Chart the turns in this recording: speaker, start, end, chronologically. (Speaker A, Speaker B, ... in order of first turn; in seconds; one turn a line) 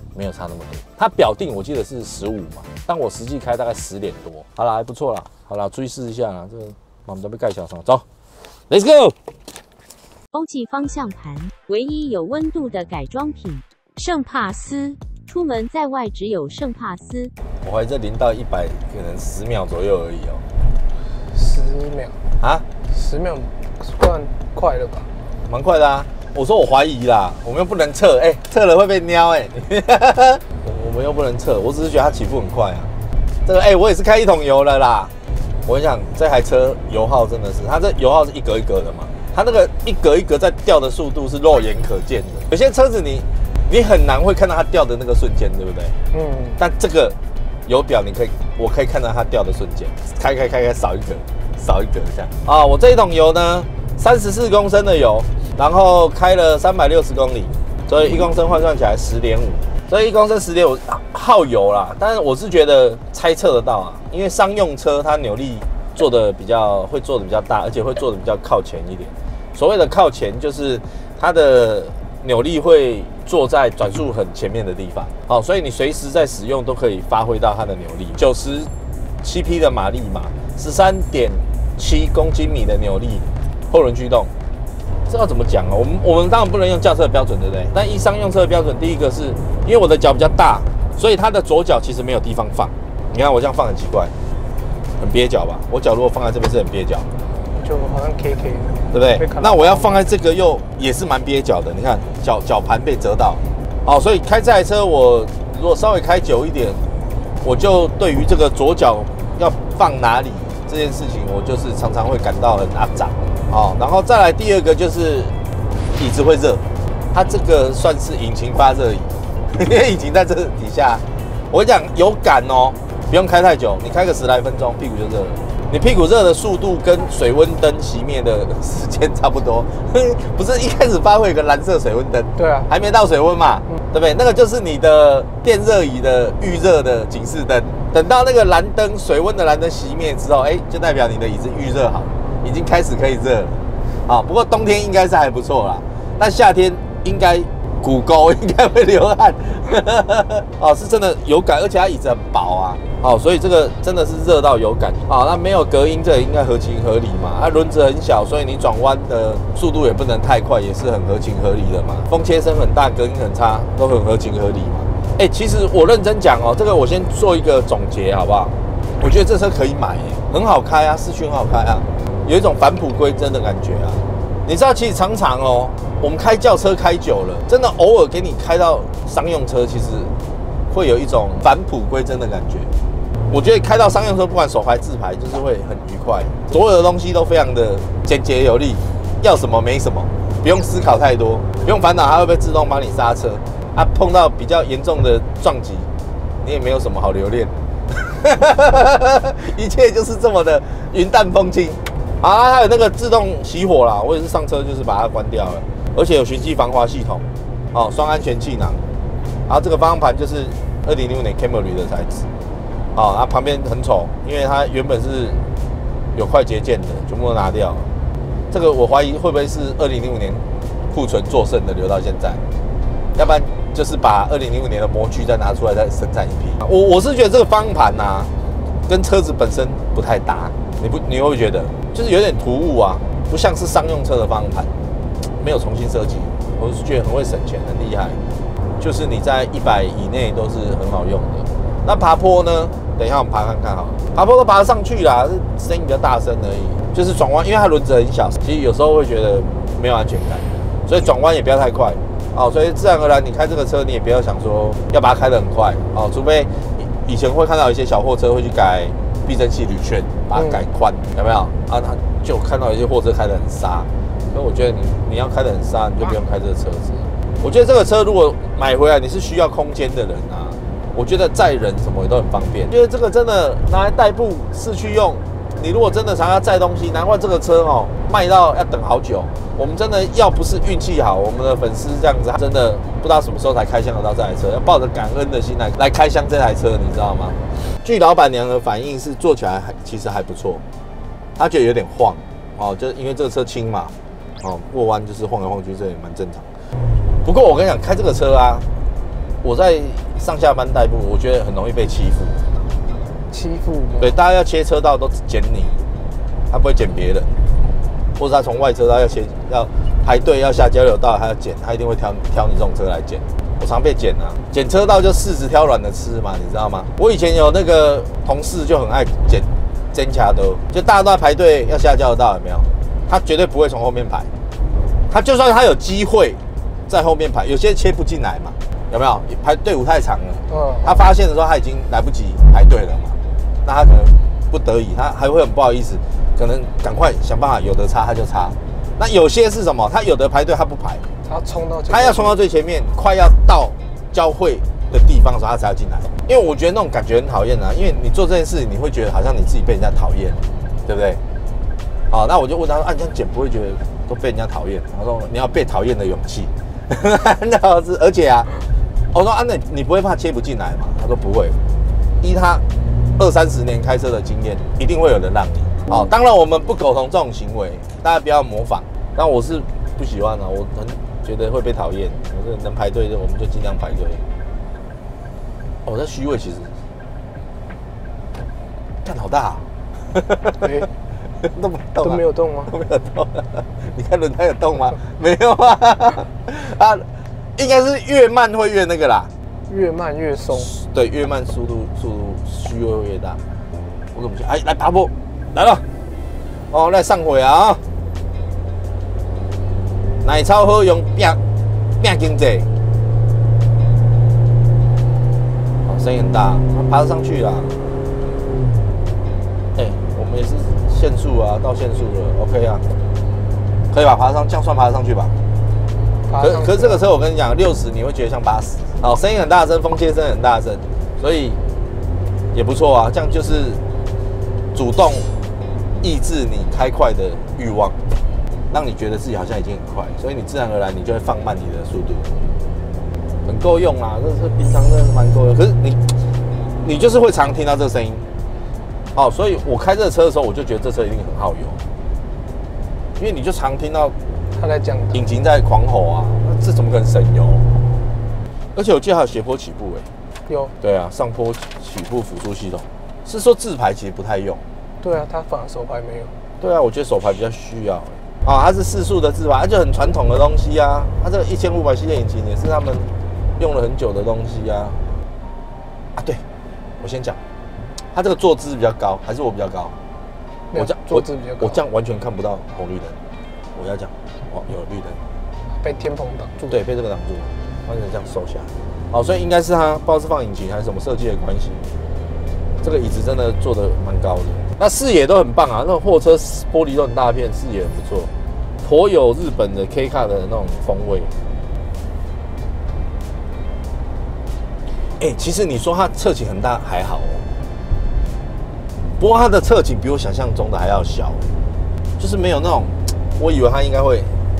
Speaker A: 0.1-8.1
Speaker A: 8.7-9.2
Speaker B: 10.3-17.3
Speaker A: 17.6-20.4
Speaker C: 21.3-22.2
Speaker A: 22.4-22.6
Speaker C: 22.9-25.1
Speaker A: 25.5-32.9
Speaker A: 33.4-35.1
Speaker A: 35.6-46.0
Speaker C: 46.1-46.6
Speaker A: 46.6-78.7
Speaker A: 79.2-84.3
Speaker A: 85.1-94.1
Speaker A: 95.0-97.1
Speaker C: 97.5-100.0
Speaker A: 98.9-106.8
Speaker A: 107.4-115.3
Speaker A: 115.9-180.1
Speaker C: 132.3-132.7
Speaker A: 180.7-182.7
Speaker A: 183.3-195.9
Speaker A: 196.4-208.8
Speaker A: 209.5-212.3
Speaker A: 212.9-215.4
Speaker A: 216.1-217.9
Speaker A: 218.5-222.4
Speaker A: 223.1-228.3
Speaker A: 228.9-234.7
Speaker A: 235.4-238.2
Speaker A: 238.8-290.6
Speaker C: 260.3-260.6
Speaker A: 291.4-296.5
Speaker A: 297.2-298.7
Speaker A: 299.4-302.4
Speaker C: 303.3-304.1
Speaker A: 304.0-305.8
Speaker A: 306.5-307.3
Speaker A: 308.2-324.3
Speaker A: 325.1-341.1
Speaker C: 330.5-331.0
Speaker C: 341.2-342.4
Speaker A: 341.9-351.2
Speaker A: 352.1-358.5
Speaker A: 359.1-361.6
Speaker A: 362.2-362.6
Speaker A: 363.2-374.2
Speaker A: 375.8-376.7
Speaker A: 379.0-380.8
Speaker C: 380.5-380.9
Speaker A: 381.4-387.1
Speaker C: 382.0-382.7
Speaker A: 387.6-389.3
Speaker C: 389.7-390.7
Speaker A: 390.5-393.4
Speaker A: 394.1-395.9
Speaker A: 396.7-397.8
Speaker A: 400.2-401.4
Speaker A: 402.0-402.7
Speaker A: 405.9-407.8
Speaker A: 409.7-412.9
Speaker A: 413.9-415.3
Speaker C: 416.3-417.0
Speaker A: 416.4-421.6
Speaker A: 422.5-423.8
Speaker A: 424.7-425.2
Speaker A: 426.0-428.0
Speaker A: 428.7-432.5
Speaker A: 433.4-436.1
Speaker A: 436.8-438.3
Speaker A: 439.1-441.8
Speaker A: 443.2-444.1
Speaker C: 444.5-445.2
Speaker A: 445.1-447.6
Speaker A: 448.7-450.1
Speaker C: 450.5-450.7
Speaker A: 450.8-454.6
Speaker C: 455.0-456.3
Speaker A: 456.6-465.0
Speaker A: 466.1-466.4
Speaker A: 467.0-467.4
Speaker A: 468.1-469.9
Speaker C: 470.7-471.8
Speaker A: 470.7-473.2
Speaker A: 473.7-475.2
Speaker C: 475.8-476.8
Speaker A: 476.7-481.9
Speaker A: 482.8-488.3
Speaker A: 488.8-491.3
Speaker A: 495.2-497.4
Speaker A: 499.2-501.4
Speaker A: 502.2-504.4